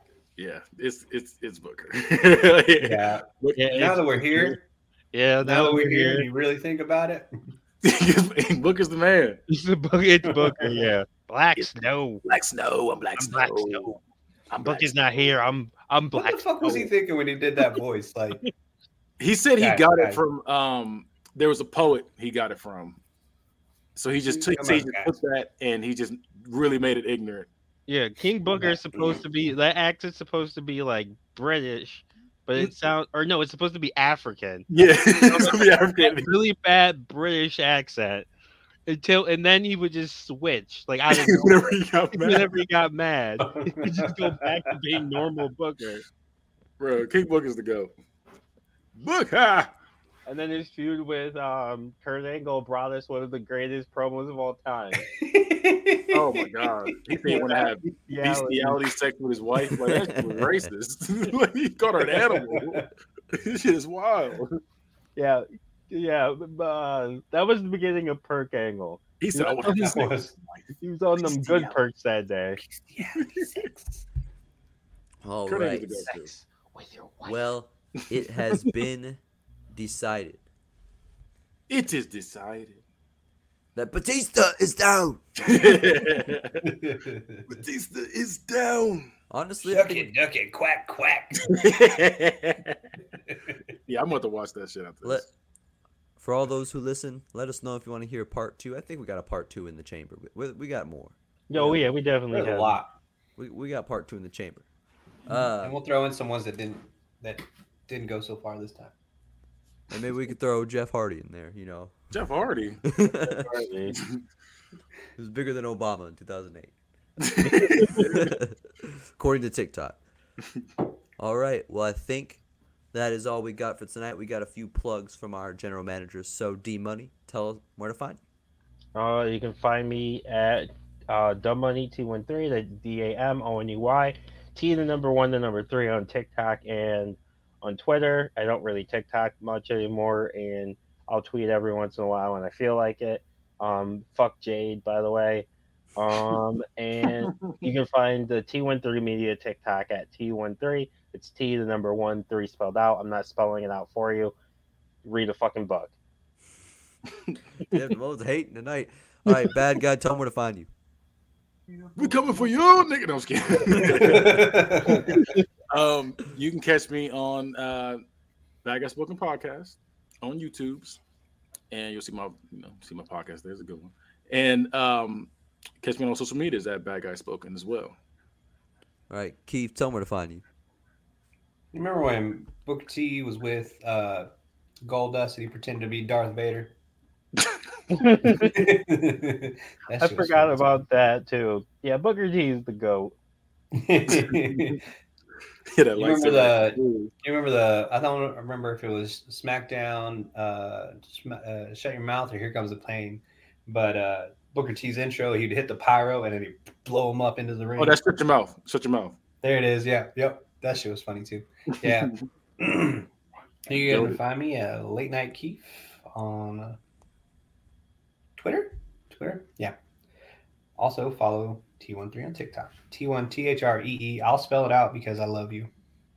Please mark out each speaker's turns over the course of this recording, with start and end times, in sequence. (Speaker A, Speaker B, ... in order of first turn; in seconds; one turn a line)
Speaker A: 0.4-3.9
Speaker B: 2.8-4.6
Speaker C: 3.6-4.5
Speaker C: 5.1-6.3
Speaker B: 5.4-7.3
Speaker A: 7.8-9.4
Speaker C: 9.5-12.2
Speaker B: 10.2-10.8
Speaker A: 12.2-14.0
Speaker C: 13.2-14.0
Speaker A: 14.5-14.9
Speaker C: 14.6-16.5
Speaker B: 16.1-18.4
Speaker A: 19.2-23.0
Speaker B: 19.6-20.2
Speaker A: 24.0-27.5
Speaker B: 24.3-25.1
Speaker C: 27.9-38.3
Speaker B: 28.5-29.2
Speaker A: 34.7-36.3
Speaker C: 38.9-46.0
Speaker A: 41.1-42.6
Speaker B: 43.4-44.3
Speaker A: 46.8-47.9
Speaker A: 49.0-49.7
Speaker C: 50.3-55.0
Speaker B: 55.0-56.4
Speaker A: 56.1-64.6
Speaker B: 57.0-57.7
Speaker C: 58.1-58.8
Speaker D: 59.9-60.7
Speaker B: 62.1-62.9
Speaker C: 65.2-70.0
Speaker A: 69.2-71.8
Speaker B: 69.6-70.3
Speaker C: 70.8-72.6
Speaker B: 72.9-74.1
Speaker A: 73.2-73.5
Speaker D: 75.2-76.1
Speaker A: 75.5-76.3
Speaker C: 76.1-77.5
Speaker D: 77.2-79.2
Speaker D: 79.7-80.4
Speaker A: 81.7-82.8
Speaker D: 83.8-85.2
Speaker A: 85.4-86.8
Speaker B: 86.6-87.4
Speaker A: 87.5-89.1
Speaker D: 89.3-90.1
Speaker B: 89.6-91.7
Speaker A: 91.4-92.8
Speaker B: 93.3-93.6
Speaker A: 93.9-95.3
Speaker D: 96.2-101.8
Speaker C: 101.5-102.8
Speaker B: 102.3-102.9
Speaker D: 103.4-104.7
Speaker D: 105.3-105.8
Speaker B: 105.6-108.9
Speaker D: 109.9-112.0
Speaker A: 112.1-112.8
Speaker D: 112.9-113.5
Speaker C: 113.0-114.0
Speaker A: 113.9-114.2
Speaker D: 115.2-116.7
Speaker A: 117.2-118.3
Speaker C: 117.4-118.0
Speaker D: 117.9-120.0
Speaker D: 121.2-122.4
Speaker D: 122.9-128.2
Speaker C: 128.9-154.3
Speaker A: 147.2-147.6
Speaker C: 155.0-155.9
Speaker D: 157.7-160.7
Speaker A: 162.0-165.2
Speaker B: 163.7-165.2
Speaker C: 165.1-165.4
Speaker A: 165.7-168.0
Speaker A: 168.6-171.0
Speaker A: 171.7-175.3
Speaker A: 175.8-178.0
Speaker D: 179.1-180.4
Speaker B: 181.7-184.3
Speaker B: 184.8-186.7
Speaker C: 187.9-188.7
Speaker B: 188.2-190.8
Speaker C: 190.0-193.1
Speaker B: 193.8-194.8
Speaker A: 194.1-194.8
Speaker A: 195.7-197.1
Speaker B: 196.0-208.0
Speaker A: 207.8-209.2
Speaker B: 209.4-213.1
Speaker A: 211.8-212.2
Speaker B: 213.7-216.8
Speaker A: 213.7-214.2
Speaker B: 218.4-219.8
Speaker B: 220.8-225.7